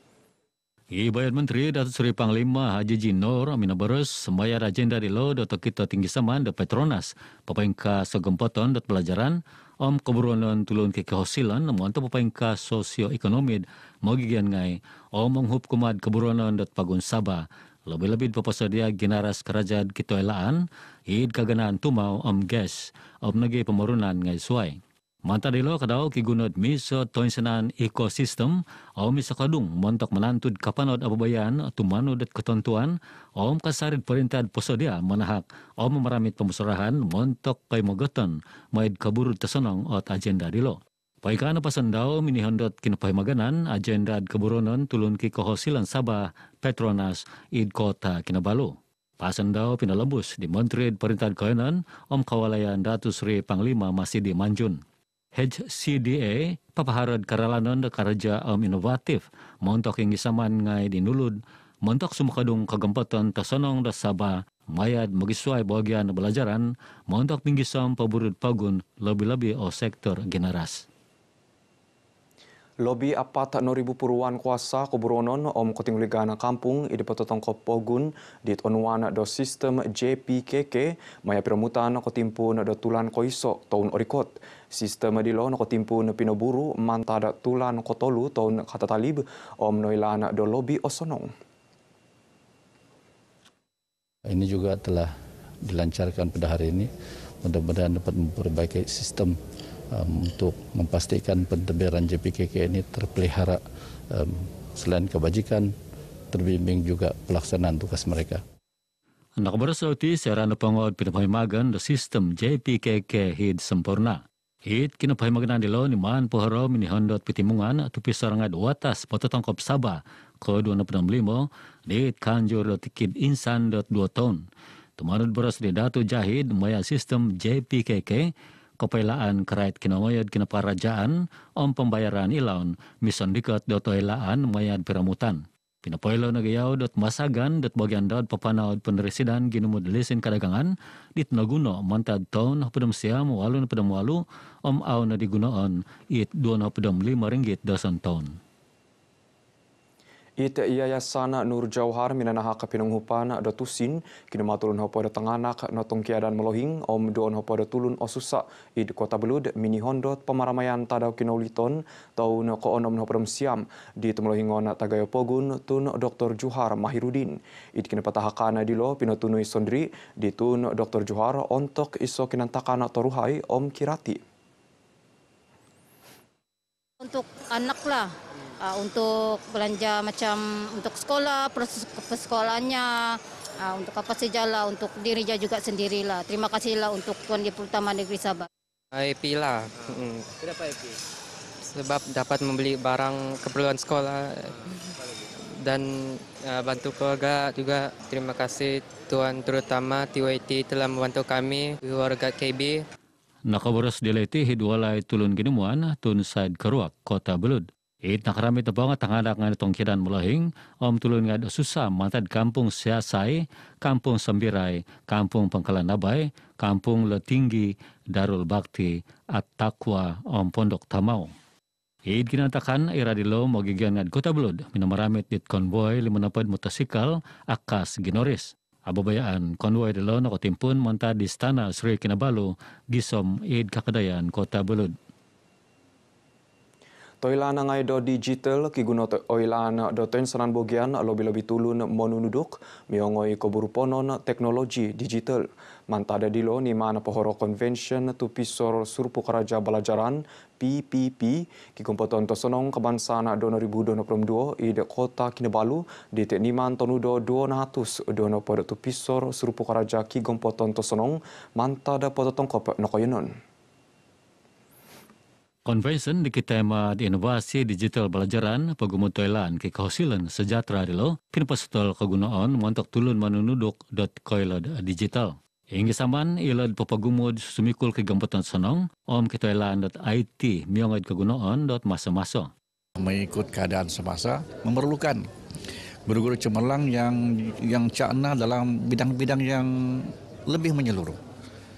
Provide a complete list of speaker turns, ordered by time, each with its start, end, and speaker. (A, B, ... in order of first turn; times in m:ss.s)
0:00.9-0:54.8 A
0:55.3-1:10.8 A
1:12.8-1:31.3 B
1:34.3-1:35.1 C
1:35.6-1:36.9 C
1:37.4-1:39.4 C
1:39.9-1:43.6 C
1:44.1-1:45.7 C
1:46.3-1:48.4 C
1:49.4-2:04.4 A
2:05.0-2:28.4 A
2:30.4-2:54.2 B
2:57.0-3:02.9 D
3:03.6-3:08.5 D
3:08.9-3:10.2 E
3:11.7-3:14.6 E
3:15.6-3:22.8 E
3:23.5-3:41.3 A
3:42.1-3:55.0 A
3:57.2-4:23.3 B
4:25.7-4:42.5 A
4:43.0-4:45.3 F
4:46.1-4:51.2 F